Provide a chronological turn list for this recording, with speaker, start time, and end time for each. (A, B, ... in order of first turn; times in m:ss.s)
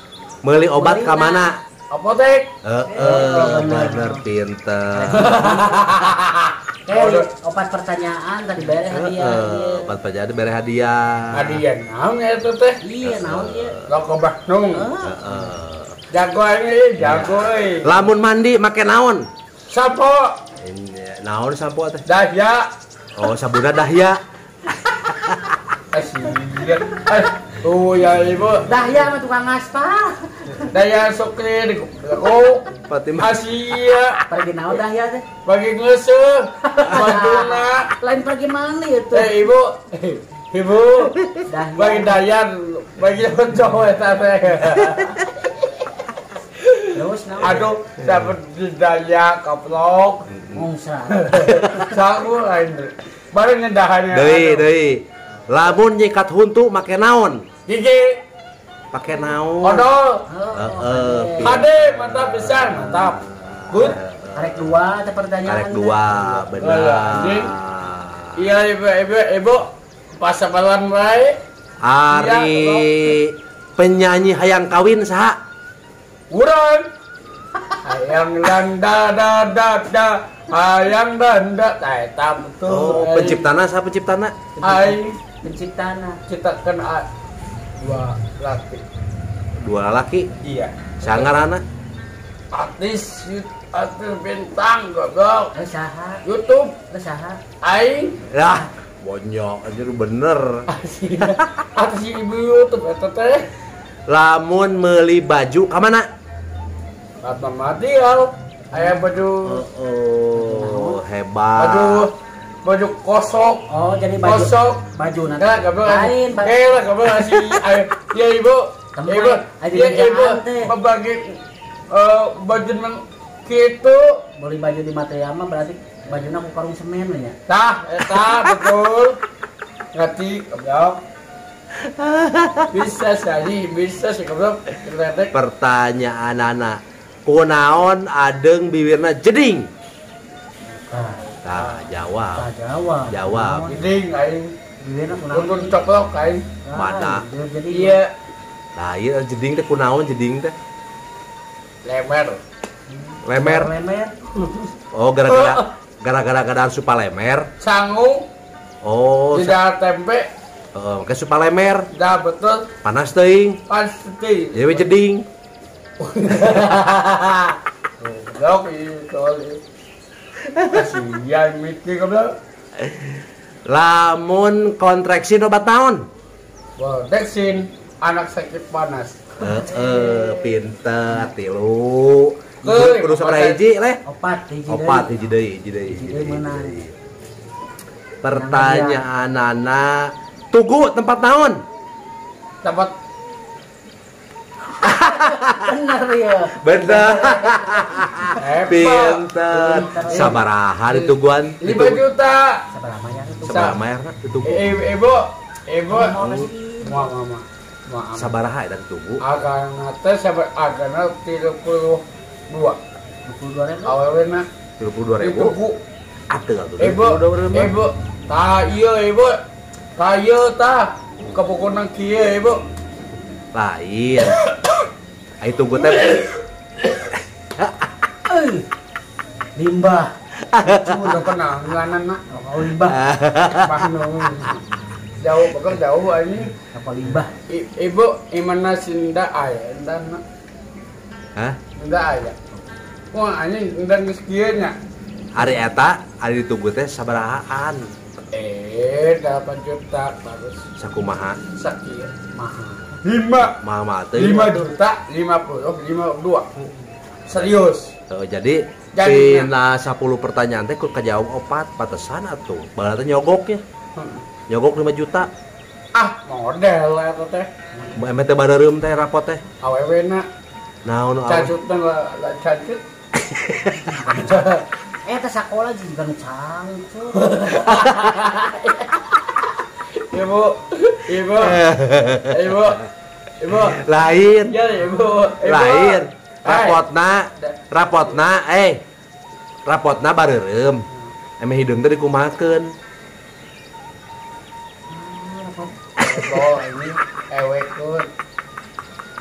0:00.4-0:01.6 A
0:00.7-0:01.5 B
0:01.9-0:03.6 C
0:02.6-0:05.4 A
0:02.9-0:04.2 B
0:04.9-0:06.1 B
0:05.1-0:07.3 C
0:06.9-0:09.9 B
0:08.9-0:11.6 A
0:11.3-0:12.8 C
0:12.8-0:13.8 B
0:13.0-0:14.0 A
0:13.9-0:14.9 C
0:14.7-0:15.5 B
0:15.0-0:16.0 A
0:16.1-0:18.0 C
0:17.0-0:19.3 A
0:19.7-0:20.4 C
0:20.6-0:22.0 A
0:22.1-0:22.7 C
0:23.2-0:25.5 A
0:25.9-0:28.7 C
0:28.7-0:30.7 B
0:30.7-0:32.7 C
0:32.9-0:33.4 A
0:33.2-0:34.2 C
0:34.3-0:35.2 B
0:35.4-0:37.9 C
0:36.6-0:39.4 B
0:39.1-0:41.2 C
0:41.5-0:42.2 B
0:41.8-0:45.5 C
0:46.6-0:50.3 C
0:46.9-0:47.7 B
0:50.4-0:50.6 A
0:50.5-0:51.8 B
0:51.1-0:54.7 C
0:54.1-0:57.4 A
0:57.7-0:58.2 C
0:58.9-0:59.9 A
0:59.6-1:00.3 C
1:00.3-1:01.6 B
1:00.6-1:04.8 A
1:01.4-1:04.0 C
1:04.3-1:06.5 B
1:05.4-1:08.5 A
1:06.6-1:07.5 C
1:08.4-1:11.4 C
1:11.8-1:15.4 A
1:12.1-1:12.9 C
1:16.3-1:16.9 C
1:17.8-1:23.4 C
1:22.7-1:24.4 A
1:24.6-1:26.2 B
1:24.6-1:25.2 C
1:26.3-1:27.1 C
1:27.8-1:28.8 C
1:29.6-1:30.3 A
1:30.4-1:31.3 C
1:31.0-1:31.6 A
1:32.5-1:35.5 C
1:35.5-1:36.2 B
1:36.2-1:36.8 C
1:36.9-1:37.4 B
1:37.6-1:38.2 C
1:38.3-1:40.7 A
1:40.7-1:43.5 C
1:44.1-1:46.1 A
1:47.2-1:49.7 C
1:48.7-1:49.1 B
1:49.4-1:52.1 A
1:50.4-1:51.0 B
1:51.6-1:52.1 C
1:52.6-1:53.7 C
1:53.7-1:56.7 B
1:54.2-1:54.8 C
1:55.4-2:04.2 C
1:57.2-1:57.6 A
1:59.0-2:00.7 B
2:04.4-2:07.4 B
2:07.5-2:09.2 C
2:09.9-2:11.0 C
2:11.8-2:12.8 A
2:12.7-2:15.3 C
2:15.3-2:19.7 A
2:20.9-2:21.4 B
2:21.4-2:22.5 A
2:22.4-2:23.9 B
2:23.1-2:23.7 A
2:23.7-2:24.6 C
2:24.8-2:25.8 B
2:25.3-2:26.5 C
2:26.6-2:28.0 B
2:26.7-2:27.3 A
2:27.7-2:28.1 C
2:28.8-2:30.6 A
2:31.8-2:32.4 C
2:32.9-2:34.2 B
2:33.2-2:33.7 A
2:34.9-2:37.5 A
2:35.3-2:35.7 C
2:37.6-2:38.3 C
2:38.8-2:39.6 A
2:39.3-2:40.3 C
2:40.7-2:41.9 A
2:41.9-2:42.7 C
2:42.8-2:43.6 A
2:43.7-2:44.9 C
2:44.5-2:45.3 A
2:46.0-2:49.6 C
2:50.4-2:51.0 A
2:50.7-2:52.4 C
2:52.8-2:56.1 A
2:56.8-2:59.8 C
2:59.4-3:04.0 A
3:02.6-3:03.6 C
3:04.1-3:05.3 B
3:04.7-3:07.0 A
3:05.9-3:06.9 B
3:08.2-3:11.6 A
3:08.3-3:09.0 B
3:12.6-3:12.9 C
3:14.8-3:18.3 B
3:14.8-3:15.8 A
3:16.6-3:22.0 A
3:18.4-3:20.4 C
3:19.5-3:20.4 B
3:20.9-3:22.6 C
3:22.7-3:23.8 B
3:23.4-3:24.7 A
3:23.5-3:23.8 C
3:24.4-3:26.2 C
3:25.9-3:27.1 B
3:26.2-3:26.5 A
3:26.8-3:28.4 C
3:28.2-3:29.2 A
3:29.2-3:32.8 C
3:33.2-3:34.0 B
3:33.9-3:34.5 C
3:34.8-3:35.6 A
3:35.2-3:35.8 C
3:36.3-3:37.7 A
3:36.8-3:39.4 C
3:40.0-3:42.6 C
3:43.5-3:44.4 A
3:44.3-3:44.7 C
3:45.4-3:46.3 A
3:45.9-3:46.3 C
3:47.6-3:47.9 A
3:48.3-3:48.7 B
3:49.6-3:51.3 B
3:50.4-3:51.2 A
3:51.0-3:52.2 C
3:52.3-3:53.1 B
3:52.7-3:53.8 A
3:53.5-3:54.6 C
3:55.2-3:56.5 C
3:56.7-3:57.3 B
3:57.5-4:00.2 C
4:01.8-4:02.4 C
4:03.1-4:04.8 C
4:05.4-4:07.9 A
4:08.3-4:10.6 C
4:10.8-4:11.4 A
4:11.6-4:12.1 C
4:12.3-4:13.0 B
4:13.0-4:13.6 C
4:13.6-4:14.7 A
4:14.1-4:16.5 C
4:17.3-4:17.9 C
4:18.1-4:23.6 A
4:18.9-4:19.5 C
4:24.0-4:24.3 C
4:24.5-4:25.3 A
4:25.9-4:27.5 C
4:27.7-4:28.0 B
4:28.0-4:29.4 A
4:29.6-4:30.2 C
4:30.8-4:31.5 A
4:31.3-4:32.8 C
4:33.2-4:34.0 A
4:33.9-4:34.5 B
4:34.1-4:34.6 C
4:35.0-4:37.3 B
4:37.2-4:42.9 C
4:41.3-4:42.4 A
4:43.4-4:46.8 C
4:43.5-4:44.6 A
4:45.4-4:48.8 A
4:47.4-4:48.1 C
4:49.7-4:50.9 A
4:51.4-4:52.7 A
4:54.9-4:55.8 B
4:56.0-4:58.1 C